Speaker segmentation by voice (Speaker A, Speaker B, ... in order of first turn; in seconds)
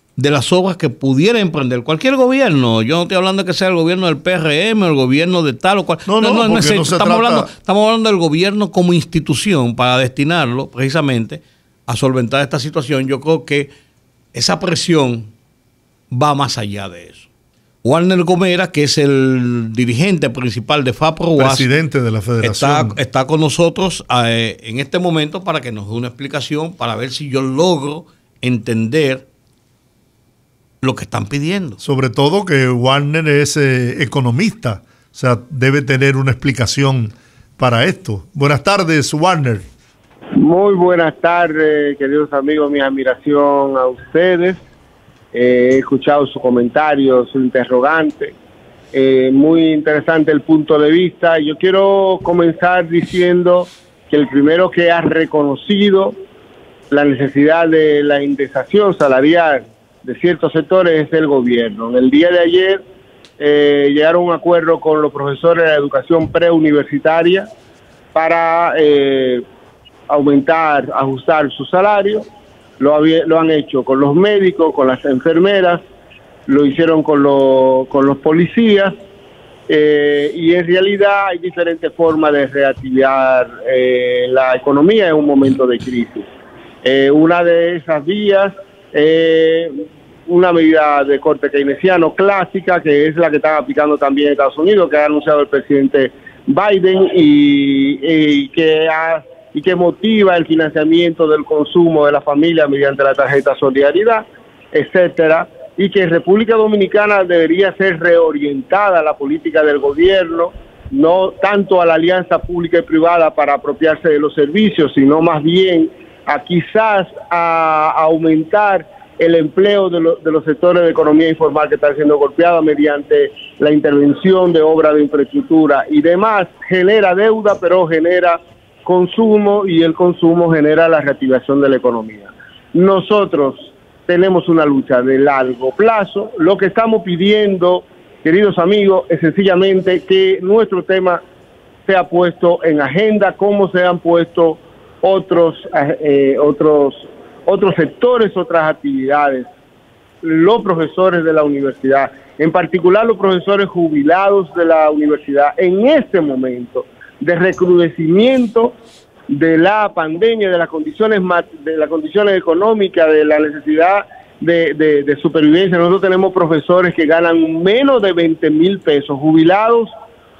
Speaker A: 0.2-13.7, 14.3-15.3, 16.1-17.3, 17.8-21.7, 22.4-29.2, 30.8-31.8
Speaker B: 6.1-7.5, 21.4-23.0, 31.8-39.7
Speaker C: 40.4-44.6, 45.3-48.3, 48.9-56.1, 56.9-62.8, 63.4-67.5, 68.2-69.4, 70.1-72.3, 72.8-75.8, 76.5-78.9, 79.7-86.3, 86.8-141.2, 141.9-149.5, 150.2-158.7, 159.3-169.9